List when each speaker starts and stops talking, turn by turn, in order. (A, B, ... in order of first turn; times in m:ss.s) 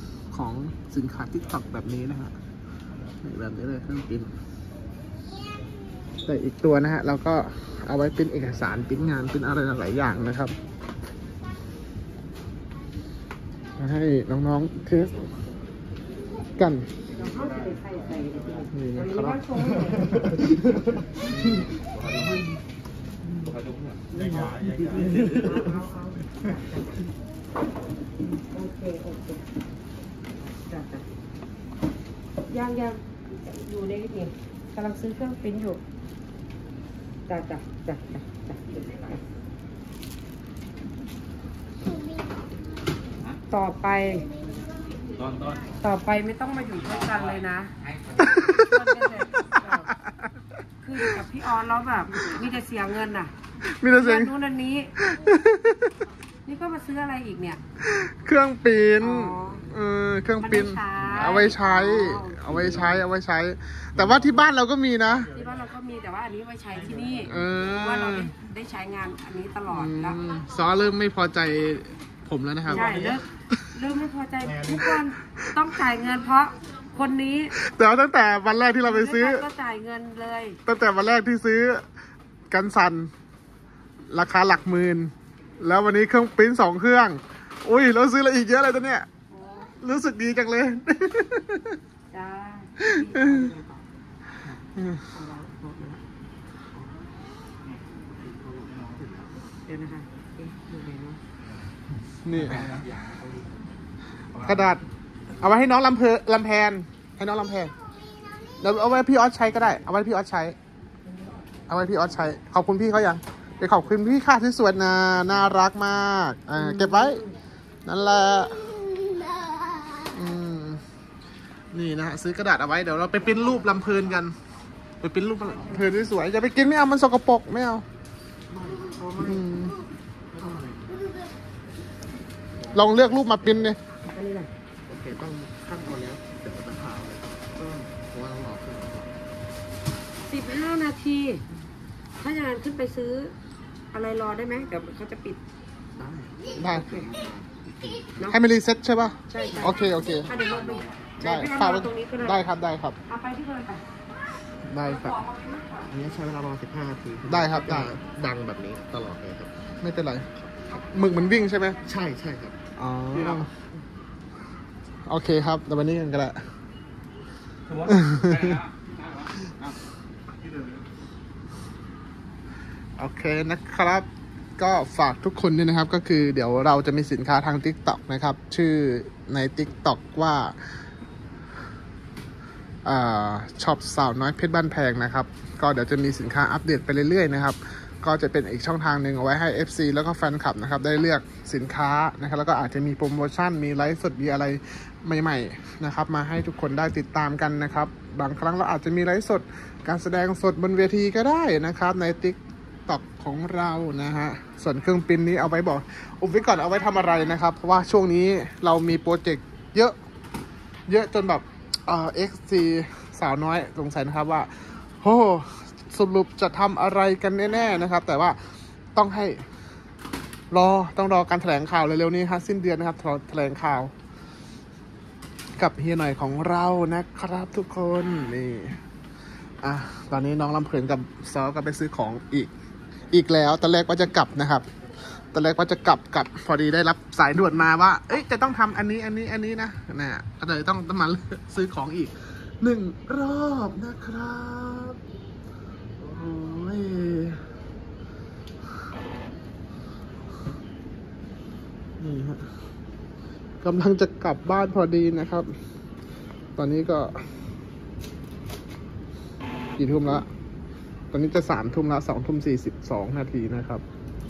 0:00.3-0:02.3 A
0:03.2-0:04.3 A
0:06.2-0:10.5 A
0:13.8-0:15.3 A
0:16.6-0:16.9 A
0:17.2-0:21.0 B
0:18.7-0:21.6 A
0:24.1-0:27.0 B
0:28.3-0:29.4 B
0:30.7-0:31.0 B
0:32.5-0:35.8 B
0:37.3-0:39.2 B
0:43.5-0:44.3 B
0:45.8-0:49.9 B
0:48.2-0:48.8 A
0:49.8-0:50.3 A
0:50.8-0:53.3 B
0:53.6-0:54.3 A
0:53.9-0:54.9 B
0:55.0-0:55.9 A
0:56.4-0:57.6 B
0:57.8-1:05.3 A
0:59.0-0:59.6 B
1:00.4-1:02.7 B
1:05.2-1:10.2 B
1:07.3-1:08.3 A
1:09.7-1:13.2 A
1:12.7-1:17.5 B
1:17.6-1:19.5 A
1:18.8-1:20.6 B
1:20.6-1:21.8 A
1:22.5-1:23.1 A
1:24.1-1:29.1 A
1:29.3-1:29.7 B
1:29.8-1:31.8 A
1:32.1-1:33.8 B
1:32.8-1:33.4 A
1:34.8-1:35.0 A
1:35.0-1:36.0 B
1:38.1-1:39.3 C
1:39.7-1:41.2 B
1:42.2-1:42.8 A
1:44.3-1:44.8 A
1:45.4-1:47.7 A
1:48.6-1:50.6 A
1:51.7-1:57.2 A
1:56.6-1:57.3 B
1:57.8-1:58.8 A
2:00.0-2:00.8 A
2:01.7-2:04.3 A
2:05.0-2:07.8 A
2:08.7-2:09.4 B
2:09.2-2:09.8 A
2:10.3-2:11.0 C
2:12.7-2:13.8 A
2:13.2-2:13.7 C
2:14.0-2:14.5 B
2:14.9-2:19.2 C
2:20.2-2:21.4 B
2:22.2-2:23.3 B
2:23.9-2:25.4 B
2:26.0-2:28.2 C
2:26.6-2:26.9 A
2:26.7-2:27.1 B
2:28.2-2:30.4 A
2:29.3-2:32.4 B
2:31.2-2:33.0 A
2:33.0-2:33.8 B
2:34.6-2:35.2 A
2:34.8-2:35.9 B
2:35.9-2:39.6 C
2:37.2-2:38.0 A
2:39.8-2:41.8 A
2:41.8-2:42.6 C
2:42.8-2:43.5 A
2:43.1-2:43.5 C
2:45.0-2:46.4 A
2:47.8-2:48.6 A
2:53.0-3:00.5 A
3:02.8-3:30.0 A
3:30.9-3:34.5 A
3:35.0-3:38.4 A
3:38.9-3:39.4 A
3:40.5-3:43.9 A
3:45.6-3:48.8 A
3:49.6-3:52.5 A
3:53.1-3:54.6 A
3:55.3-4:05.0 A
4:06.0-4:07.4 A
4:12.0-4:12.5 A
4:13.6-4:15.5 A
4:16.6-4:17.3 A
4:19.8-4:20.3 A
4:21.1-4:23.8 A